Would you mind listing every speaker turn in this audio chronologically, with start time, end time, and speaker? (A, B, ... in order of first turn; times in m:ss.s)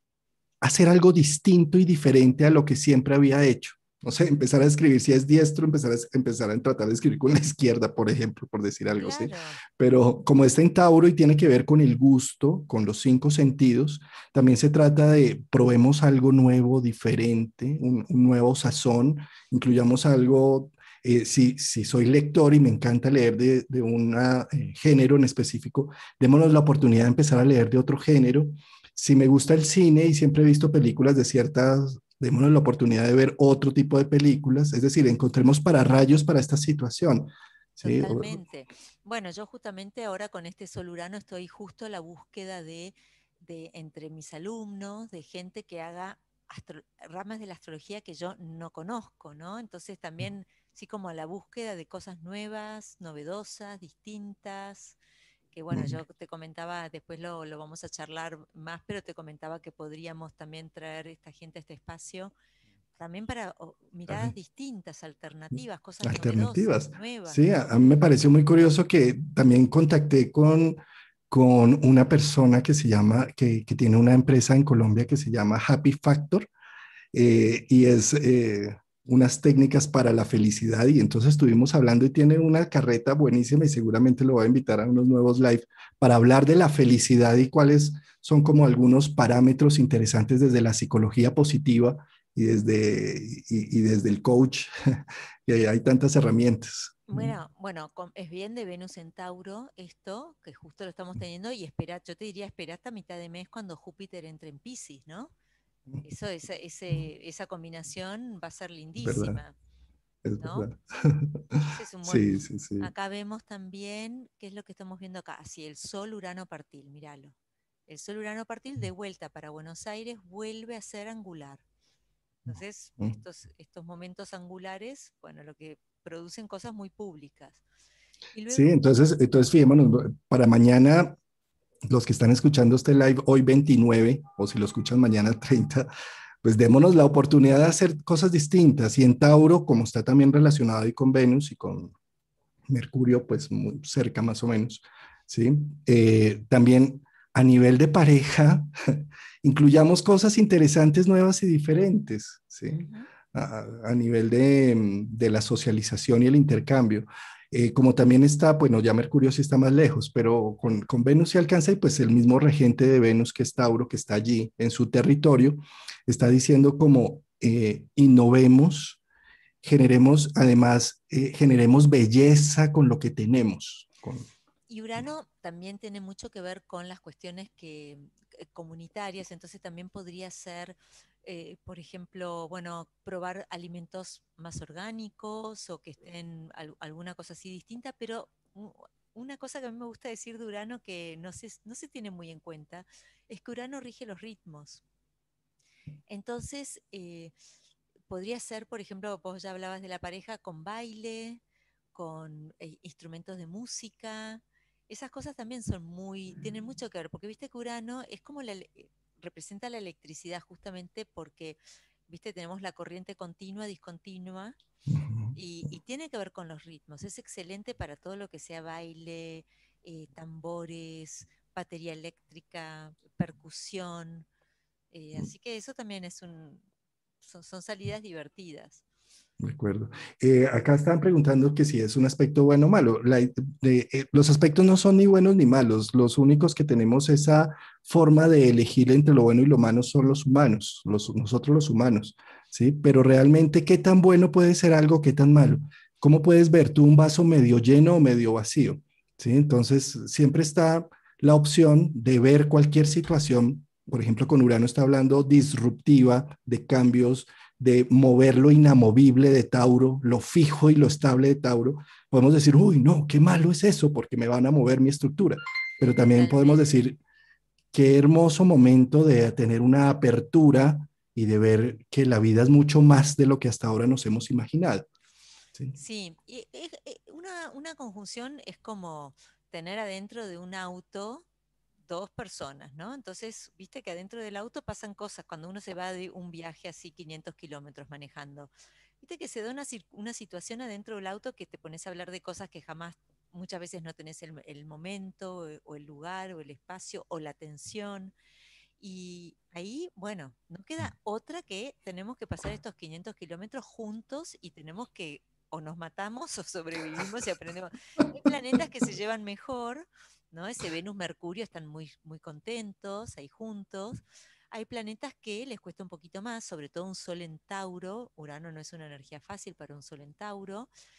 0:00.6-0:38.4 A
0:09.0-0:09.6 B
0:37.8-0:55.0 B
0:55.5-1:02.3 B
0:55.7-0:56.0 A
1:03.0-1:07.4 B
1:06.0-1:10.8 A
1:11.3-1:16.5 A
1:17.1-1:34.7 A
1:35.5-1:37.3 A
1:37.1-1:45.3 B
1:46.0-1:49.6 B
1:49.0-1:49.4 A
1:50.2-1:52.9 A
1:50.4-1:50.7 B
1:51.7-1:52.3 B
1:52.8-1:57.4 B
1:57.9-2:01.6 B
2:02.4-2:07.6 B
2:08.3-2:08.7 B
2:08.5-2:11.2 A
2:11.9-2:15.9 A
2:16.4-2:21.9 A
2:22.7-2:49.0 A
2:32.7-2:33.1 B
2:49.6-2:54.3 A
2:54.7-3:14.8 B
3:16.1-3:17.3 B
3:18.1-3:21.4 B
3:21.9-3:34.6 B
3:34.9-3:35.4 A
3:35.4-3:44.3 B
3:44.9-3:46.6 B
3:47.2-3:48.8 B
3:49.4-4:27.0 A
4:26.0-4:26.7 B
4:27.7-4:34.9 A
4:35.8-4:41.3 B
4:41.9-4:58.1 B
4:58.8-5:20.7 B